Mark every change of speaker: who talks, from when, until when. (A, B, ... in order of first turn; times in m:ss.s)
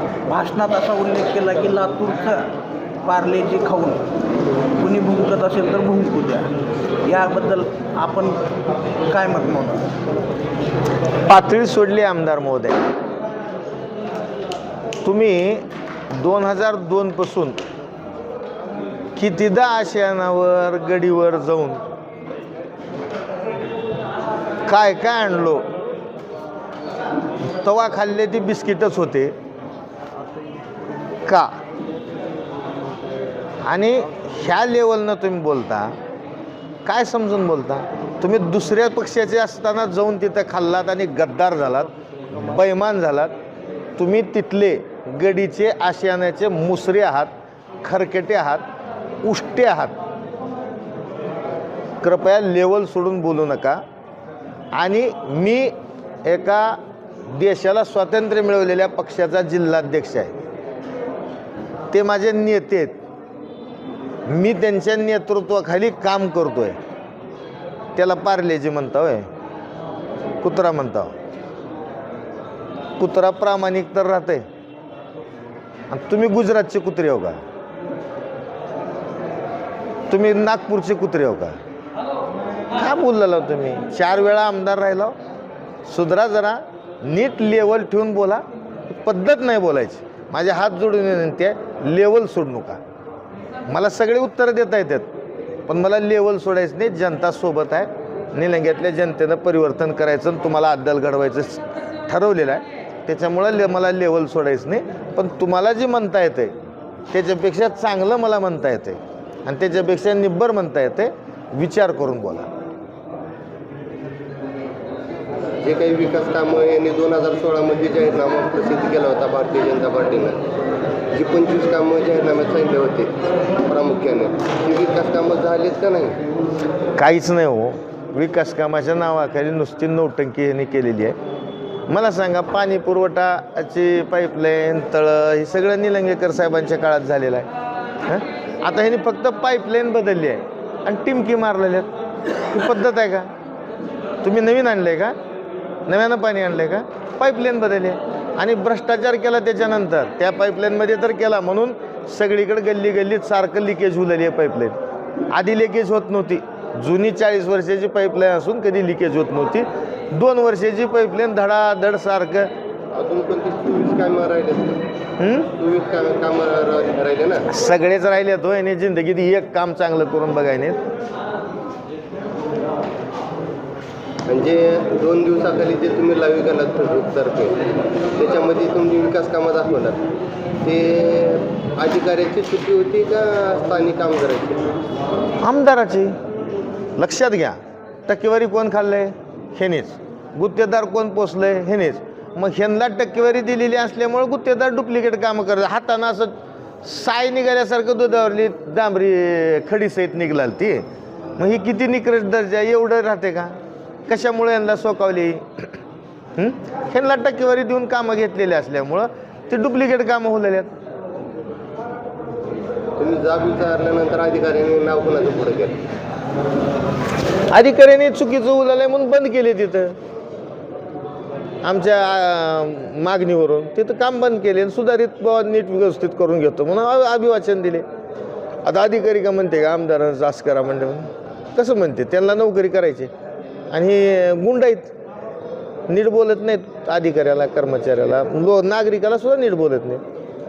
0:00.3-0:02.5 A
0:03.0-0:04.0 A
0:04.8-0:06.5 A
0:07.0-0:08.4 A
0:09.1-0:09.9 A
0:11.3-0:12.8 B
0:15.0-0:17.6 B
0:19.2-0:21.8 B
0:24.7-0:25.7 B
0:27.4-0:29.3 B
0:33.6-0:36.0 B
0:36.8-0:43.3 B
0:44.0-0:47.3 B
0:47.8-0:48.6 B
0:49.2-0:50.0 B
0:52.0-0:53.8 B
0:54.7-1:00.4 B
1:01.9-1:03.0 B
1:04.3-1:06.8 B
1:08.0-1:09.3 B
1:10.4-1:11.1 B
1:13.0-1:14.5 B
1:15.9-1:17.4 B
1:20.1-1:21.6 B
1:22.8-1:25.1 B
1:25.8-1:32.8 B
1:33.7-1:35.1 B
1:35.7-1:46.6 B
1:47.1-1:52.5 B
1:55.6-2:00.4 C
2:01.1-2:03.1 C
2:03.6-2:06.2 C
2:07.0-2:11.2 B
2:11.9-2:17.5 B
2:18.0-2:21.9 B
2:22.5-2:23.3 B
2:24.2-2:25.2 B
2:25.9-2:34.8 B
2:35.3-2:42.5 B
2:42.9-2:44.8 C
2:45.2-2:45.5 B
2:45.6-2:47.5 C
2:47.5-2:50.8 B
2:54.3-2:57.6 C
2:58.2-3:00.0 C
3:00.6-3:04.7 C
3:05.4-3:06.1 B
3:07.0-3:16.3 B
3:16.8-3:20.8 B
3:21.4-3:23.6 B
3:24.1-3:25.7 B
3:26.4-3:30.7 B
3:33.0-3:35.8 C
3:37.5-3:40.0 B
3:41.6-3:47.9 B
3:48.6-3:53.1 B
3:53.7-3:54.9 B
3:55.9-4:00.0 B